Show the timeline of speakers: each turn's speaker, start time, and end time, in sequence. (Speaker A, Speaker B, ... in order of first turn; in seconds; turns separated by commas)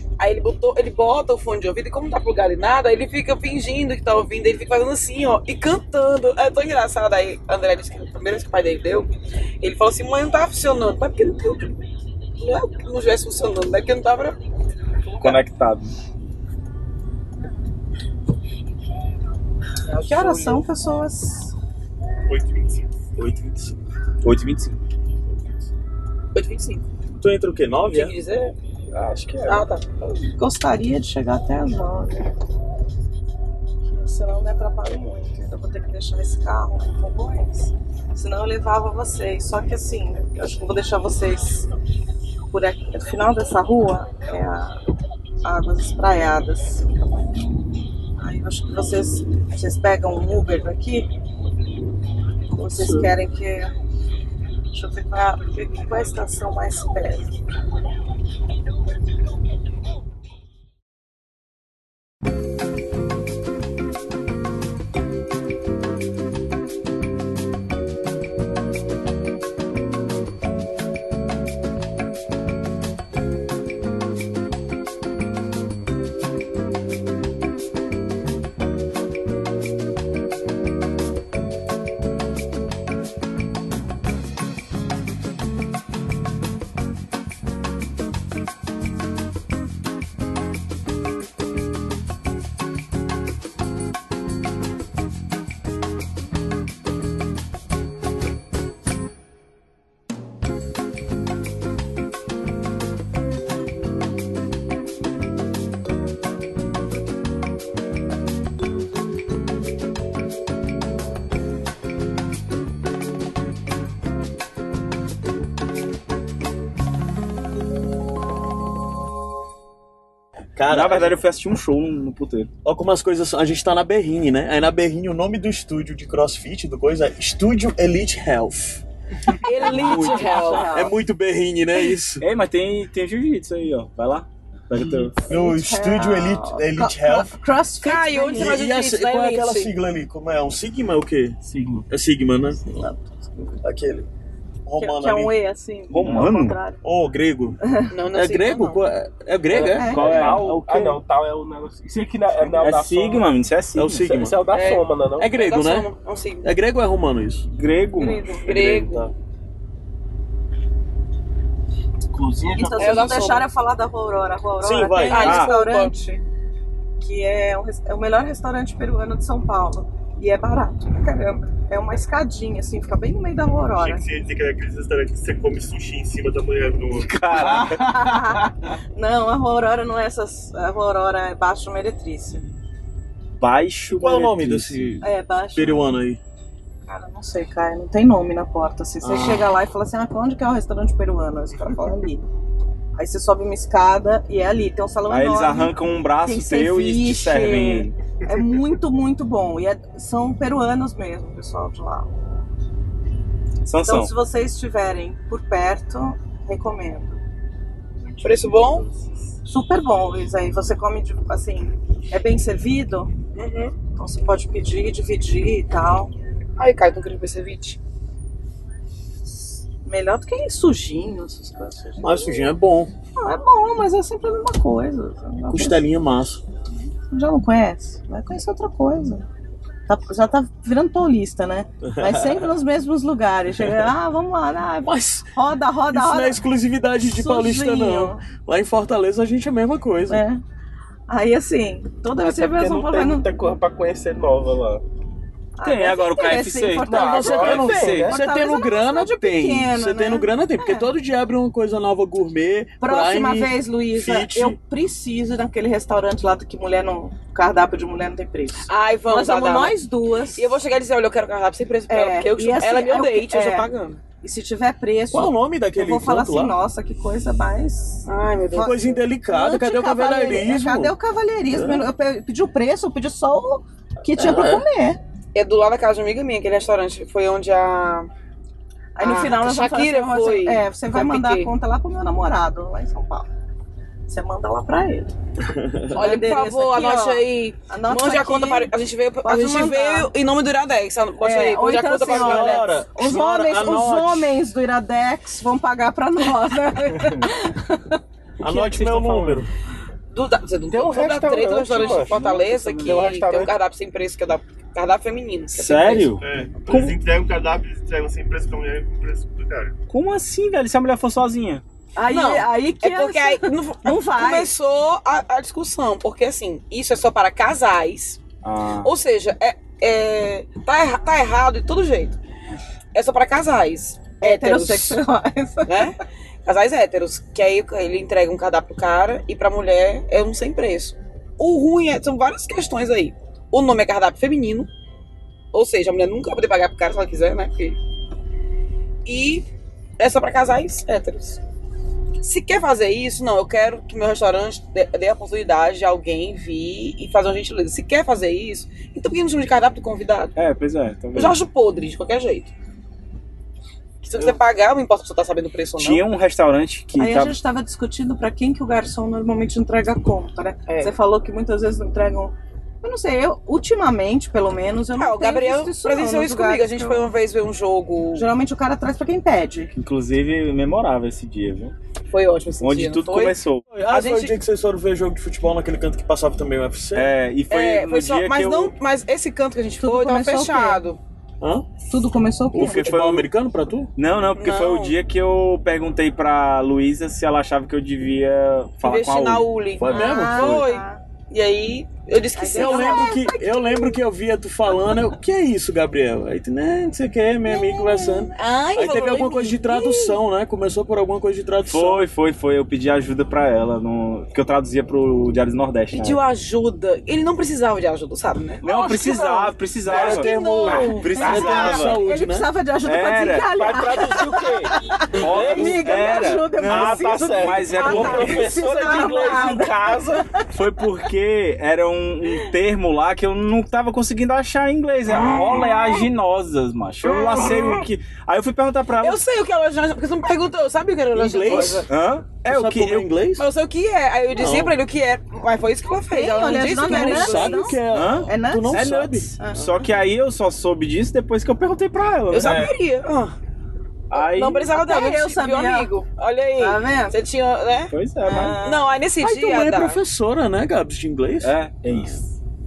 Speaker A: 0.2-11.8, Speaker A: 12.4-14.4, Speaker A: 15.1-15.4, Speaker B: 15.2-15.9, Speaker A: 19.9-20.6, Speaker C: 20.0-21.5, Speaker D: 22.3-23.1, Speaker E: 23.2-23.8, Speaker B: 24.2-24.8, Speaker A: 26.3-26.8, Speaker E: 27.2-28.2, Speaker A: 27.9-28.6, Speaker B: 28.9-29.7, Speaker A: 29.4-29.9, Speaker C: 30.0-32.3, Speaker C: 33.9-41.7, Speaker C: 42.5-44.8, Speaker C: 45.4-46.9, Speaker C: 48.2-51.1, Speaker C: 52.5-53.7, Speaker E: 52.7-53.1, Speaker C: 54.7-57.3, Speaker E: 120.6-121.2, Speaker B: 120.7-122.5, Speaker E: 122.6-128.8, Speaker A: 129.4-130.7, Speaker C: 129.5-130.9, Speaker B: 129.7-130.4, Speaker E: 129.7-132.2, Speaker B: 132.2-135.3, Speaker E: 135.2-137.3, Speaker C: 135.3-138.6, Speaker A: 137.8-139.7, Speaker E: 138.3-142.6, Speaker F: 141.4-141.8, Speaker C: 142.7-143.6, Speaker E: 143.6-144.1, Speaker E: 144.7-145.4, Speaker C: 144.8-146.8, Speaker B: 145.9-146.6, Speaker E: 146.8-147.6, Speaker C: 147.7-147.9, Speaker A: 147.9-148.8, Speaker E: 148.1-150.3, Speaker B: 149.6-151.0, Speaker C: 149.6-150.5, Speaker F: 150.0-153.4, Speaker B: 152.4-154.2, Speaker E: 153.8-154.4, Speaker F: 154.1-155.3, Speaker A: 154.5-156.5, Speaker E: 155.2-155.9, Speaker E: 156.4-157.5, Speaker B: 157.5-158.3, Speaker C: 157.9-158.5, Speaker E: 158.4-159.1, Speaker A: 158.4-159.1, Speaker E: 162.5-163.5, Speaker C: 162.5-166.2, Speaker A: 162.8-163.4, Speaker E: 164.6-165.4, Speaker A: 165.1-165.9, Speaker B: 165.2-165.5, Speaker C: 167.0-174.0, Speaker D: 173.8-177.2, Speaker B: 176.9-178.7, Speaker E: 177.3-177.8, Speaker C: 177.5-182.5, Speaker B: 183.4-185.0, Speaker E: 183.9-186.2, Speaker C: 185.0-185.9, Speaker C: 186.9-192.3, Speaker E: 189.0-189.5, Speaker C: 192.9-202.2, Speaker B: 195.1-198.0, Speaker B: 203.6-204.1, Speaker C: 203.8-207.2, Speaker A: 208.2-208.9, Speaker C: 209.4-213.1, Speaker A: 213.3-213.8, Speaker C: 213.9-216.1, Speaker A: 216.6-217.8, Speaker C: 219.8-222.5, Speaker E: 222.0-222.9, Speaker C: 223.2-225.8, Speaker E: 225.5-226.4, Speaker C: 227.1-229.3, Speaker C: 229.9-238.2, Speaker E: 231.9-232.5, Speaker E: 233.6-233.9, Speaker E: 234.8-235.3, Speaker E: 235.9-240.2, Speaker C: 240.1-240.4, Speaker C: 241.1-243.3, Speaker F: 242.2-244.8, Speaker C: 245.6-250.9, Speaker B: 245.6-248.1, Speaker E: 246.9-254.6, Speaker F: 247.2-248.2, Speaker C: 252.8-260.5, Speaker A: 258.7-259.8, Speaker A: 260.4-264.0, Speaker C: 261.9-263.7, Speaker C: 264.2-275.0, Speaker E: 265.1-266.6, Speaker A: 268.1-268.8, Speaker E: 268.6-270.9, Speaker E: 271.5-271.9, Speaker E: 274.1-274.6, Speaker A: 275.4-278.1, Speaker C: 279.0-283.3, Speaker A: 279.0-281.5, Speaker C: 284.1-285.1, Speaker E: 285.4-285.9, Speaker C: 285.9-290.1, Speaker A: 285.9-292.8, Speaker C: 291.2-299.4, Speaker E: 292.0-294.4, Speaker E: 298.4-299.5, Speaker A: 300.1-306.1, Speaker F: 300.7-303.5, Speaker B: 301.8-302.8, Speaker B: 305.5-307.0, Speaker D: 306.2-309.7, Speaker B: 309.9-311.6, Speaker C: 312.0-314.5, Speaker A: 312.1-318.2, Speaker B: 318.4-318.9, Speaker A: 318.8-322.2, Speaker A: 322.9-325.0, Speaker C: 324.2-325.9, Speaker A: 325.7-334.7, Speaker A: 335.5-337.8, Speaker A: 339.1-339.5, Speaker A: 340.0-341.4, Speaker A: 342.2-350.4, Speaker B: 350.4-351.4, Speaker A: 351.1-352.5, Speaker A: 354.0-356.0, Speaker B: 355.8-357.4, Speaker C: 357.0-367.1, Speaker A: 360.7-360.9, Speaker A: 365.0-368.3, Speaker C: 368.1-369.7, Speaker B: 369.7-371.8, Speaker A: 372.1-373.4, Speaker B: 372.6-373.6, Speaker E: 373.7-377.1, Speaker A: 373.9-374.4, Speaker B: 377.0-378.7, Speaker A: 377.5-381.0, Speaker C: 379.8-380.8, Speaker E: 381.4-381.7, Speaker C: 381.9-382.9, Speaker E: 382.5-383.9, Speaker B: 382.6-383.3, Speaker B: 384.0-389.5, Speaker A: 384.4-384.9, Speaker A: 388.8-393.2, Speaker E: 389.8-390.7, Speaker C: 389.9-391.0, Speaker C: 392.4-394.0, Speaker E: 392.5-402.0, Speaker C: 397.5-398.3, Speaker A: 398.4-400.2, Speaker B: 401.7-406.2, Speaker A: 405.9-408.6, Speaker B: 408.6-412.0, Speaker E: 408.7-412.5, Speaker A: 409.9-411.8, Speaker C: 409.9-420.4, Speaker B: 412.8-414.5, Speaker F: 413.6-420.4, Speaker B: 415.1-418.6, Speaker E: 415.2-415.8, Speaker A: 417.7-418.3, Speaker B: 420.5-429.2, Speaker A: 427.0-427.9, Speaker A: 429.0-431.9, Speaker E: 431.1-431.9, Speaker B: 431.6-433.1, Speaker E: 432.4-433.5, Speaker A: 433.4-437.8, Speaker E: 434.4-434.8, Speaker C: 436.1-439.7, Speaker E: 436.8-439.3, Speaker B: 437.9-442.7, Speaker A: 442.3-443.4, Speaker E: 442.4-442.7, Speaker B: 444.1-444.7, Speaker A: 444.1-447.9, Speaker C: 444.7-445.9, Speaker C: 446.6-447.2, Speaker B: 447.9-448.6, Speaker C: 448.2-448.9, Speaker A: 448.5-450.0, Speaker E: 449.2-451.6, Speaker B: 451.4-452.2